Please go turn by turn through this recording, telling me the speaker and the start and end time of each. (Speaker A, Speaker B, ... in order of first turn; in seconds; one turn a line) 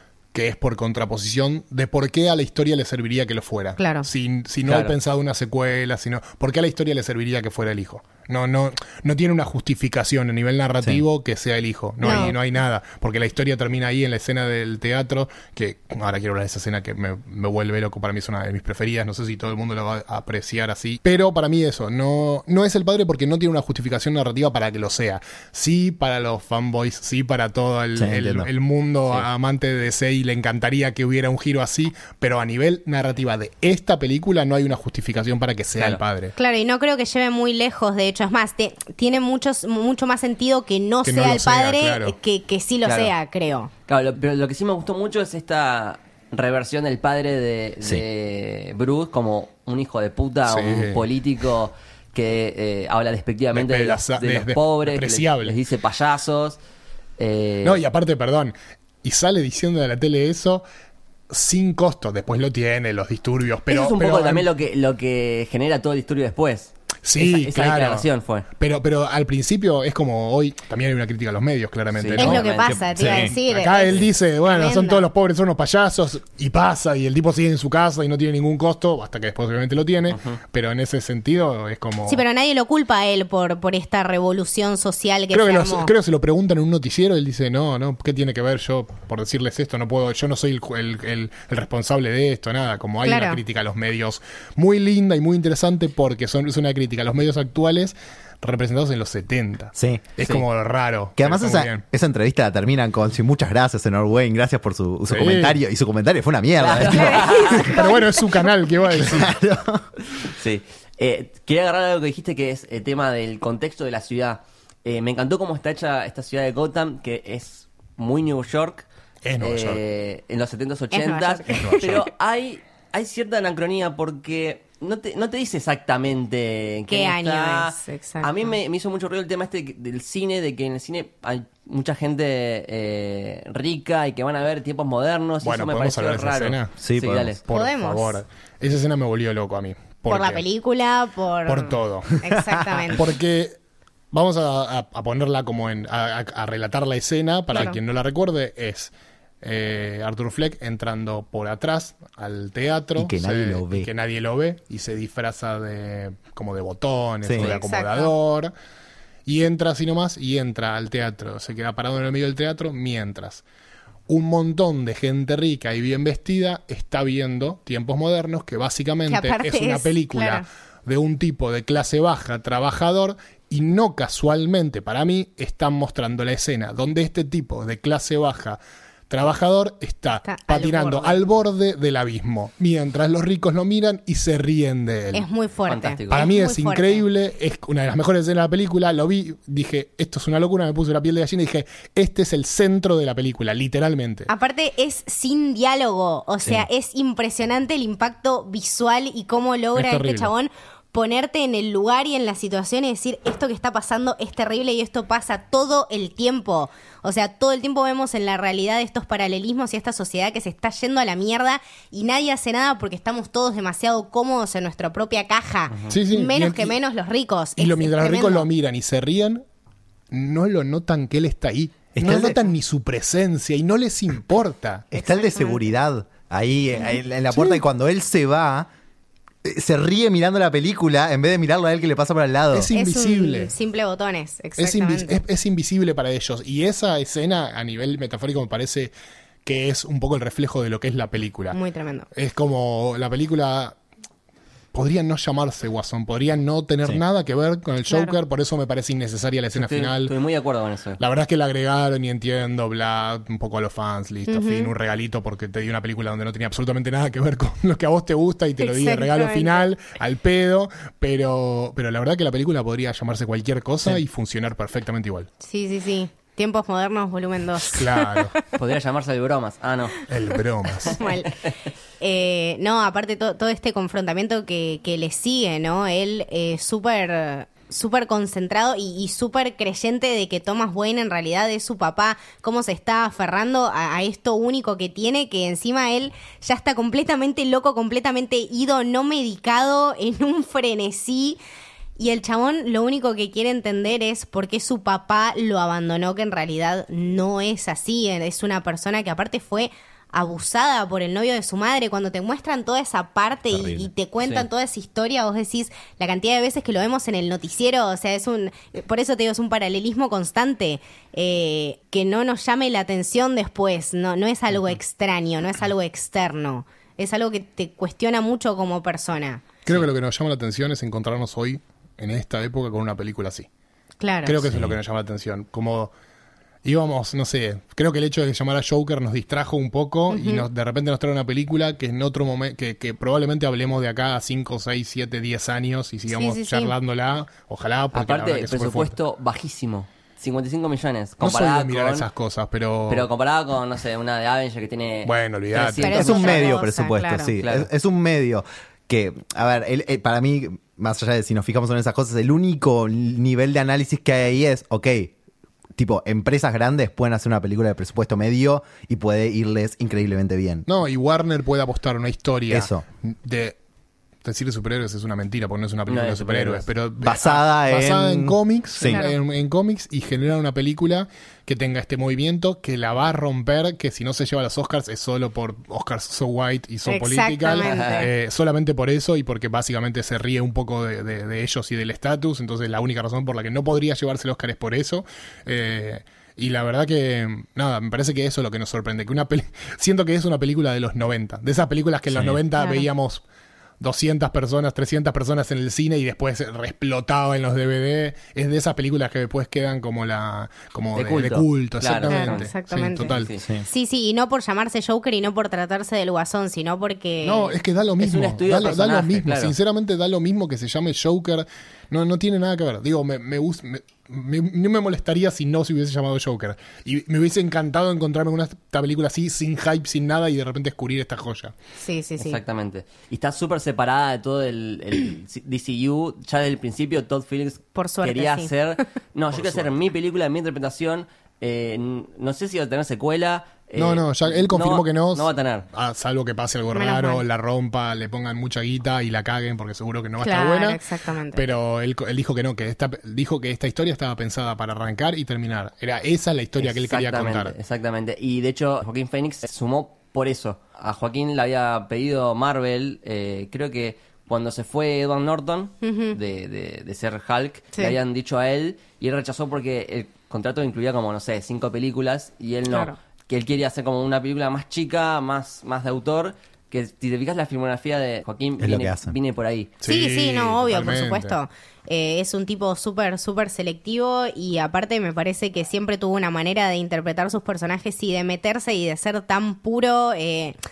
Speaker A: 0.3-36.3
Speaker B: 3.8-4.1
Speaker C: 4.6-4.9
Speaker B: 12.0-12.3
Speaker D: 27.9-28.5
Speaker C: 35.7-36.0
Speaker B: 36.4-43.7
Speaker A: 41.0-42.1
Speaker C: 42.9-43.1
Speaker C: 43.9-56.6
Speaker A: 50.5-51.0
Speaker A: 53.5-55.6
Speaker C: 57.2-57.8
Speaker A: 57.6-60.6
Speaker A: 61.3-64.5
Speaker C: 63.7-68.5
Speaker A: 67.0-68.0
Speaker A: 68.6-82.2
Speaker C: 71.9-72.7
Speaker B: 72.2-75.0
Speaker D: 72.5-73.3
Speaker C: 80.1-80.4
Speaker B: 82.1-85.9
Speaker A: 85.3-101.8
Speaker B: 93.0-93.4
Speaker D: 99.8-100.0
Speaker D: 101.2-107.7
Speaker A: 105.1-105.6
Speaker C: 106.6-107.7
Speaker B: 106.9-108.5
Speaker A: 107.4-109.3
Speaker D: 108.9-109.9
Speaker C: 110.2-118.8
Speaker A: 119.2-119.8
Speaker C: 119.4-137.4
Speaker B: 120.9-122.0
Speaker A: 121.5-121.9
Speaker B: 126.9-128.6
Speaker A: 135.4-136.7
Speaker D: 136.8-137.3
Speaker A: 137.4-140.4
Speaker B: 137.5-138.2
Speaker B: 140.1-143.0
Speaker A: 141.4-142.3
Speaker A: 142.9-143.6
Speaker A: 144.1-158.5
Speaker B: 147.5-147.8
Speaker D: 153.0-153.9
Speaker D: 157.2-157.5
Speaker B: 157.4-158.1
Speaker A: 159.2-163.4
Speaker A: 164.1-185.2
Speaker B: 169.1-170.4
Speaker B: 180.2-181.2
Speaker B: 185.1-187.0
Speaker C: 185.7-186.3
Speaker A: 186.1-194.3
Speaker B: 194.3-218.4
Speaker A: 199.7-200.3
Speaker A: 215.9-216.7
Speaker A: 217.6-219.4
Speaker A: 220.1-224.9
Speaker D: 222.0-222.4
Speaker D: 224.9-228.7
Speaker B: 224.9-225.6
Speaker B: 226.9-227.6
Speaker D: 229.4-232.7
Speaker A: 232.5-233.5
Speaker B: 232.7-235.2
Speaker A: 234.6-238.9
Speaker A: 239.4-241.6
Speaker B: 241.5-242.1
Speaker A: 242.1-243.8
Speaker A: 244.7-250.1
Speaker B: 247.9-248.2
Speaker C: 249.5-251.0
Speaker A: 251.0-265.3
Speaker B: 254.3-254.7
Speaker B: 258.6-259.6
Speaker B: 265.4-268.5
Speaker A: 267.7-268.4
Speaker C: 268.5-270.1
Speaker A: 270.1-271.0
Speaker C: 270.9-271.5
Speaker B: 270.9-271.4
Speaker B: 272.0-291.4
Speaker B: 292.0-319.4
Speaker D: 303.5-303.9
Speaker A: 319.6-323.5
Speaker B: 324.0-324.4
Speaker A: 324.2-325.9
Speaker D: 324.4-324.8
Speaker A: 326.6-339.0
Speaker B: 330.1-330.4
Speaker B: 336.1-336.7
Speaker C: 337.9-342.1
Speaker A: 341.2-343.1
Speaker C: 342.9-346.5
Speaker A: 345.1-346.1
Speaker B: 345.8-347.3
Speaker D: 345.9-355.1
Speaker C: 347.4-347.7
Speaker D: 355.8-360.6
Speaker A: 360.7-363.6
Speaker D: 362.5-362.8
Speaker A: 364.2-393.2
Speaker C: 365.9-366.7
Speaker D: 367.0-369.0
Speaker B: 368.9-369.1
Speaker B: 376.9-378.1
Speaker C: 377.6-378.0
Speaker D: 392.1-392.4
Speaker B: 392.6-392.9
Speaker A: 393.8-403.3
Speaker C: 400.9-402.5
Speaker B: 402.1-403.1
Speaker C: 403.1-403.4
Speaker B: 403.6-407.6
Speaker A: 407.2-421.5
Speaker C: 408.0-409.6
Speaker B: 421.8-422.4
Speaker C: 422.2-435.6
Speaker B: 427.7-428.8
Speaker A: 429.3-429.7
Speaker A: 433.8-440.8
Speaker B: 436.7-437.2
Speaker B: 440.2-441.4
Speaker A: 441.3-447.5
Speaker C: 446.6-469.7
Speaker B: 455.8-456.2
Speaker D: 468.6-469.1
Speaker A: 469.8-471.4
Speaker B: 469.9-480.6